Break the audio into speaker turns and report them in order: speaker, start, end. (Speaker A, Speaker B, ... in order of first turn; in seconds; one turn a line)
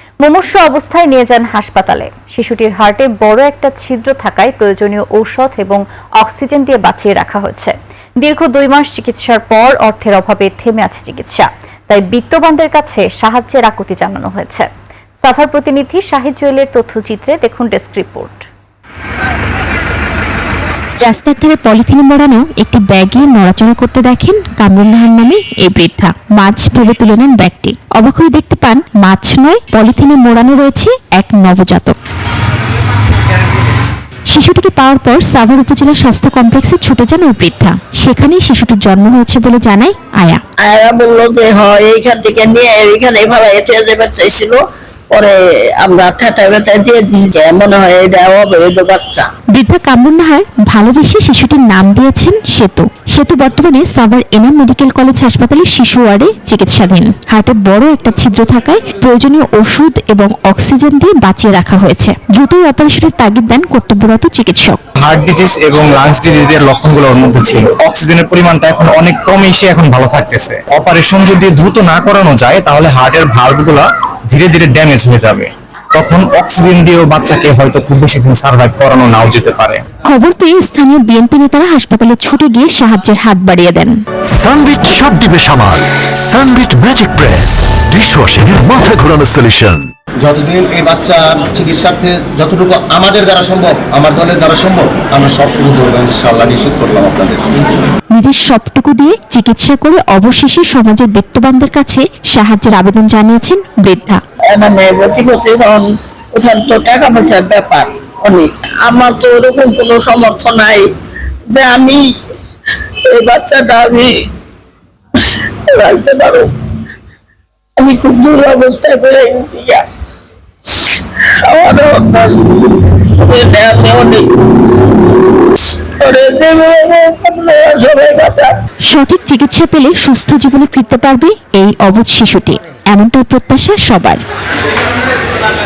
Speaker A: 0.2-14.7
Speaker A: 15.2-18.4
Speaker B: 21.0-32.0
Speaker B: 34.3-40.4
Speaker C: 40.6-49.2
Speaker B: 49.5-64.8
Speaker D: 65.0-79.8
Speaker B: 80.1-83.9
Speaker E: 84.4-89.8
Speaker F: 90.2-97.8
Speaker B: 98.1-104.2
Speaker C: 104.5-110.8
Speaker C: 111.5-112.0
Speaker C: 113.1-114.1
Speaker C: 115.2-116.5
Speaker C: 117.8-119.8
Speaker C: 120.8-124.2
Speaker C: 126.0-128.5
Speaker B: 128.9-134.2